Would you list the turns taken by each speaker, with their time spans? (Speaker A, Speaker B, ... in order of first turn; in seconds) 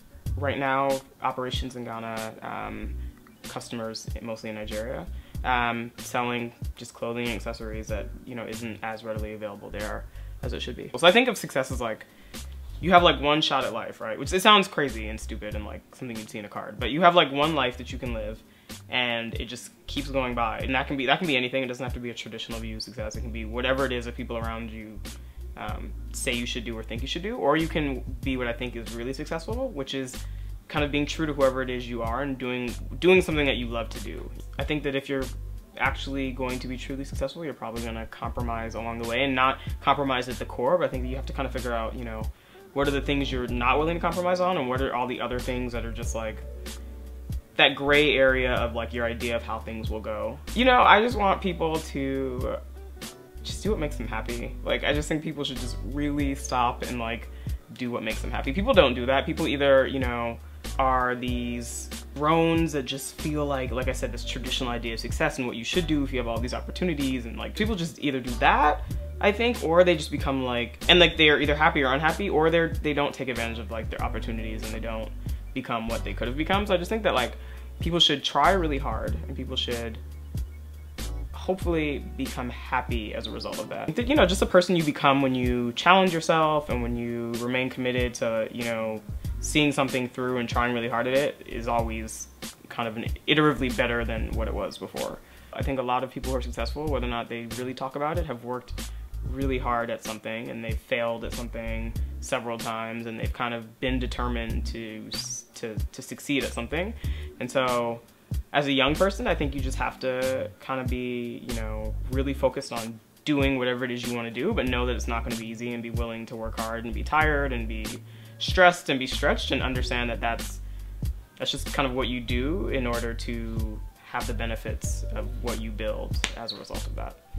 Speaker A: 0.3-2.9, 3.5-12.1, 12.8-25.0, 25.6-46.4, 47.5-52.6, 53.4-80.0, 81.3-120.6, 121.4-127.2